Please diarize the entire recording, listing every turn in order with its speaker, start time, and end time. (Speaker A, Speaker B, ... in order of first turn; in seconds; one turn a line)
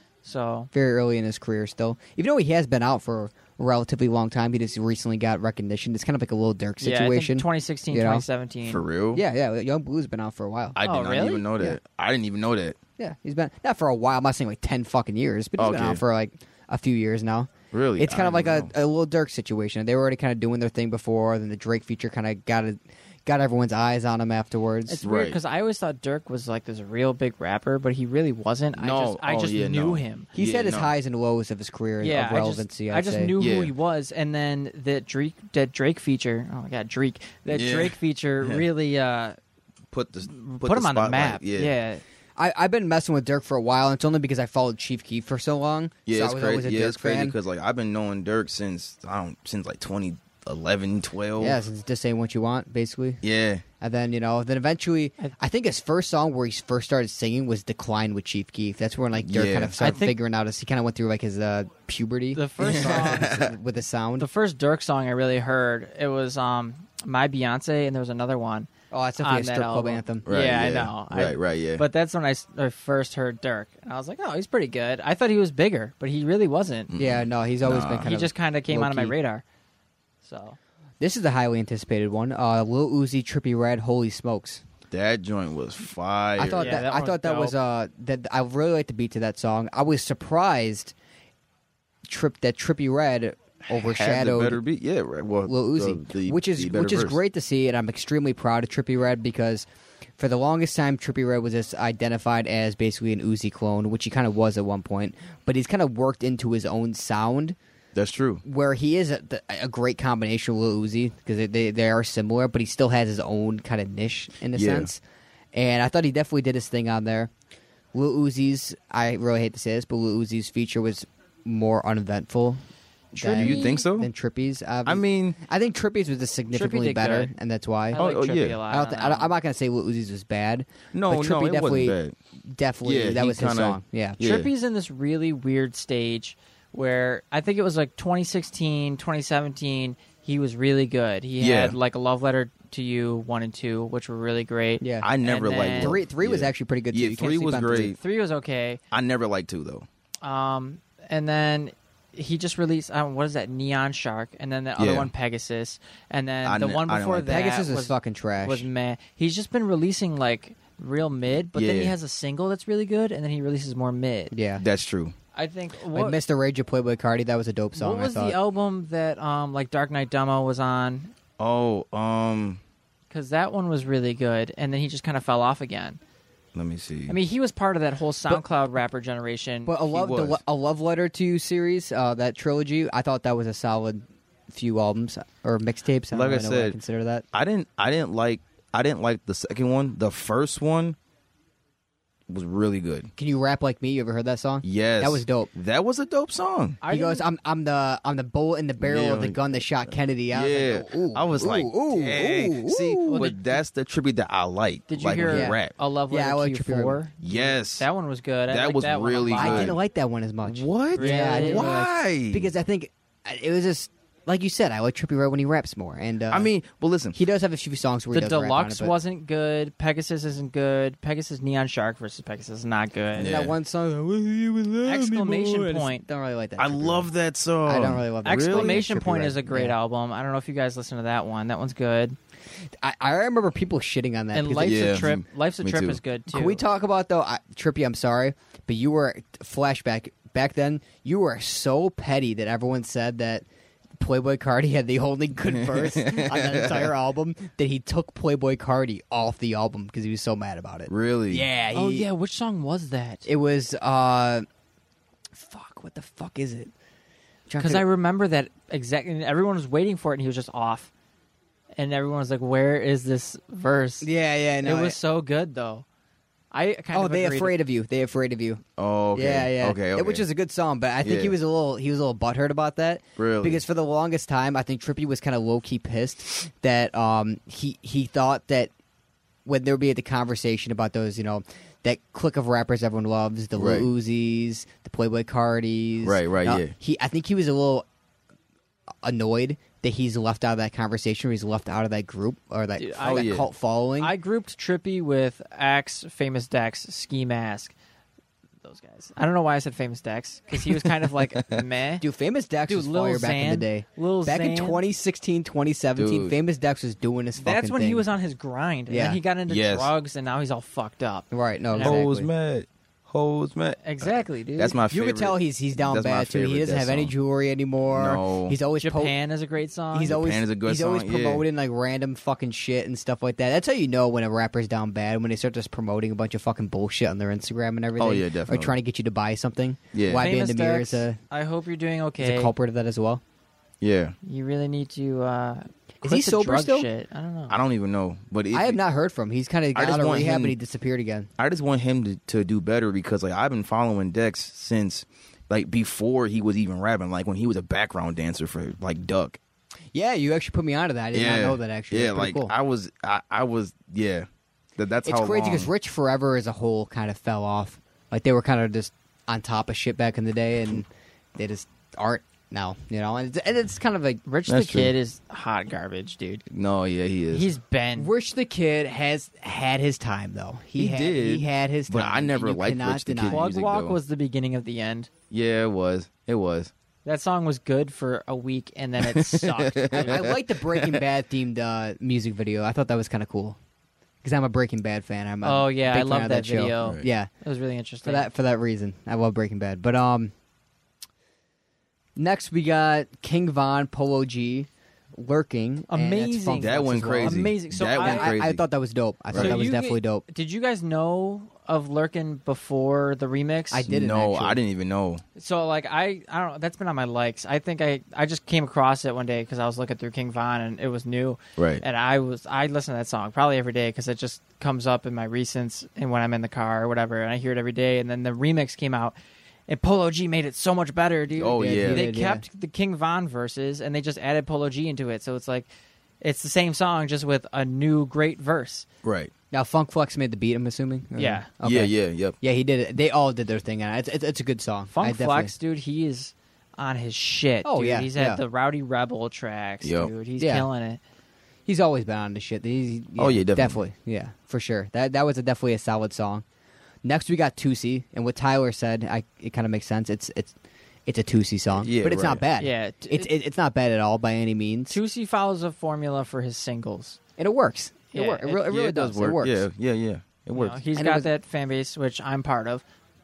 Speaker A: 0.2-0.7
Speaker B: 0.7-8.2
Speaker A: 6.8-8.8
Speaker C: 8.7-9.2
Speaker B: 9.1-10.8
Speaker C: 10.8-12.8
Speaker A: 10.8-11.4
Speaker B: 13.0-25.0
Speaker C: 15.6-16.0
Speaker C: 17.7-18.7
Speaker A: 24.9-30.3
Speaker C: 25.0-25.4
Speaker C: 28.8-30.9
Speaker B: 30.3-33.3
Speaker A: 32.0-39.4
Speaker C: 33.4-33.7
Speaker C: 37.5-38.6
Speaker C: 39.9-41.7
Speaker A: 40.3-42.0
Speaker B: 42.4-47.4
Speaker C: 46.1-51.6
Speaker B: 51.4-53.2
Speaker C: 53.2-53.6
Speaker B: 53.8-64.3
Speaker C: 59.2-59.8
Speaker A: 59.8-60.1
Speaker A: 62.3-63.4
Speaker C: 62.6-63.5
Speaker A: 64.2-68.7
Speaker B: 68.9-70.2
Speaker A: 69.2-76.9
Speaker C: 70.2-71.8
Speaker C: 76.9-78.1
Speaker B: 77.0-79.1
Speaker A: 78.0-79.4
Speaker A: 80.2-80.6
Speaker B: 81.0-84.6
Speaker C: 84.9-86.8
Speaker B: 86.4-90.9
Speaker A: 86.5-87.5
Speaker B: 92.1-94.6
Speaker C: 93.7-97.2
Speaker B: 95.5-99.7
Speaker B: 100.2-107.5
Speaker C: 107.9-108.4
Speaker B: 108.4-115.0
Speaker C: 114.5-114.9
Speaker B: 115.5-117.3
Speaker B: 117.9-122.6
Speaker B: 123.1-128.0
Speaker A: 123.2-123.8
Speaker C: 123.3-124.1
Speaker C: 124.8-125.4
Speaker A: 126.5-127.3
Speaker A: 127.9-129.3
Speaker C: 128.0-128.6
Speaker B: 128.7-134.2
Speaker C: 130.9-132.1
Speaker C: 132.8-134.5
Speaker A: 134.2-146.0
Speaker C: 141.4-141.8
Speaker B: 144.8-145.1
Speaker C: 145.0-148.0
Speaker B: 145.8-147.9
Speaker A: 147.9-148.8
Speaker C: 148.9-149.8
Speaker A: 150.2-164.3
Speaker C: 154.8-155.1
Speaker C: 156.4-157.4
Speaker B: 157.3-158.7
Speaker C: 161.5-161.9
Speaker B: 164.3-164.6
Speaker C: 164.6-165.1
Speaker A: 165.3-166.2
Speaker B: 165.9-168.3
Speaker A: 167.8-171.1
Speaker C: 171.4-172.6
Speaker A: 173.1-176.0
Speaker C: 176.5-177.2
Speaker A: 177.1-179.8
Speaker B: 179.7-187.2
Speaker C: 179.9-180.4
Speaker C: 186.1-186.8
Speaker C: 187.3-190.9
Speaker C: 192.3-193.1
Speaker B: 193.2-195.5
Speaker C: 194.6-196.8
Speaker A: 196.8-197.2
Speaker B: 196.9-203.3
Speaker C: 198.8-205.7
Speaker A: 203.1-203.6
Speaker A: 204.9-209.7
Speaker B: 205.2-205.6
Speaker B: 206.1-207.0
Speaker C: 207.2-207.9
Speaker C: 208.5-209.8
Speaker B: 209.3-216.5
Speaker C: 210.4-212.5
Speaker A: 210.9-211.8
Speaker C: 216.3-217.2
Speaker B: 217.1-218.9
Speaker A: 218.1-223.4
Speaker C: 223.2-223.5
Speaker B: 223.2-227.1
Speaker A: 224.8-226.1
Speaker C: 226.6-228.9
Speaker B: 227.7-229.7
Speaker A: 228.2-232.2
Speaker B: 232.8-235.1
Speaker A: 234.3-236.6
Speaker C: 234.6-236.0
Speaker B: 236.3-243.4
Speaker B: 244.0-252.1
Speaker C: 245.7-246.9
Speaker C: 250.9-251.4
Speaker A: 251.7-253.3
Speaker B: 253.2-254.4
Speaker B: 255.3-256.7
Speaker B: 257.5-257.8
Speaker A: 257.6-260.9
Speaker A: 261.8-264.1
Speaker B: 264.0-264.9
Speaker A: 264.6-265.8
Speaker A: 266.5-267.5
Speaker B: 266.9-268.6
Speaker C: 268.8-270.2
Speaker B: 269.1-278.7
Speaker C: 271.0-271.3
Speaker C: 273.2-273.6
Speaker B: 279.4-287.8
Speaker C: 283.6-283.9
Speaker C: 286.0-286.7
Speaker B: 289.0-294.1
Speaker A: 292.8-293.3
Speaker C: 293.0-293.5
Speaker A: 294.0-297.7
Speaker A: 298.6-302.0
Speaker B: 302.0-308.1
Speaker A: 302.7-304.8
Speaker C: 306.0-306.4
Speaker A: 307.4-312.0
Speaker B: 308.9-309.2
Speaker C: 309.5-309.9
Speaker B: 311.3-312.3
Speaker C: 311.8-317.1
Speaker A: 313.8-314.8
Speaker B: 314.9-319.1
Speaker C: 317.9-318.6
Speaker A: 318.8-320.2
Speaker B: 319.9-331.2
Speaker C: 320.1-321.4
Speaker C: 328.0-328.7
Speaker C: 329.9-330.3
Speaker A: 330.1-332.5
Speaker B: 332.2-333.2
Speaker C: 333.8-334.1
Speaker A: 334.2-337.6
Speaker B: 336.0-336.9
Speaker C: 337.5-338.8
Speaker B: 338.5-341.3
Speaker C: 339.7-340.5
Speaker C: 341.4-349.4
Speaker B: 349.9-352.5
Speaker C: 351.1-354.3
Speaker C: 354.8-355.7
Speaker B: 355.0-364.2
Speaker A: 364.2-366.4
Speaker C: 364.5-364.9
Speaker C: 366.5-367.5
Speaker A: 367.3-368.1
Speaker B: 367.9-373.4
Speaker C: 370.8-374.0
Speaker A: 373.3-375.1
Speaker C: 375.3-376.7
Speaker A: 377.0-380.2
Speaker C: 379.1-381.0
Speaker B: 379.9-383.6
Speaker B: 384.2-387.3
Speaker A: 385.4-388.3
Speaker B: 388.0-390.3
Speaker B: 392.2-400.2
Speaker A: 395.9-398.3
Speaker C: 396.6-398.6
Speaker C: 399.3-399.6
Speaker A: 399.3-403.8
Speaker B: 403.7-404.6
Speaker C: 403.9-405.2
Speaker A: 405.4-419.1
Speaker C: 411.6-411.8
Speaker A: 419.7-425.7
Speaker B: 421.4-422.4
Speaker C: 421.4-422.0
Speaker A: 426.2-428.9
Speaker C: 429.0-429.3
Speaker B: 429.5-435.5
Speaker A: 431.1-431.5
Speaker C: 431.6-432.4
Speaker A: 434.9-441.0
Speaker B: 437.6-438.4
Speaker C: 439.8-440.1
Speaker B: 440.4-440.7
Speaker B: 441.6-446.4
Speaker C: 443.2-443.8
Speaker B: 447.0-450.5
Speaker B: 451.1-455.0
Speaker C: 451.8-452.4
Speaker A: 452.6-453.3
Speaker A: 454.9-457.2
Speaker B: 457.4-459.6
Speaker A: 458.1-458.6
Speaker C: 458.7-460.8
Speaker A: 460.5-462.8
Speaker B: 460.9-461.3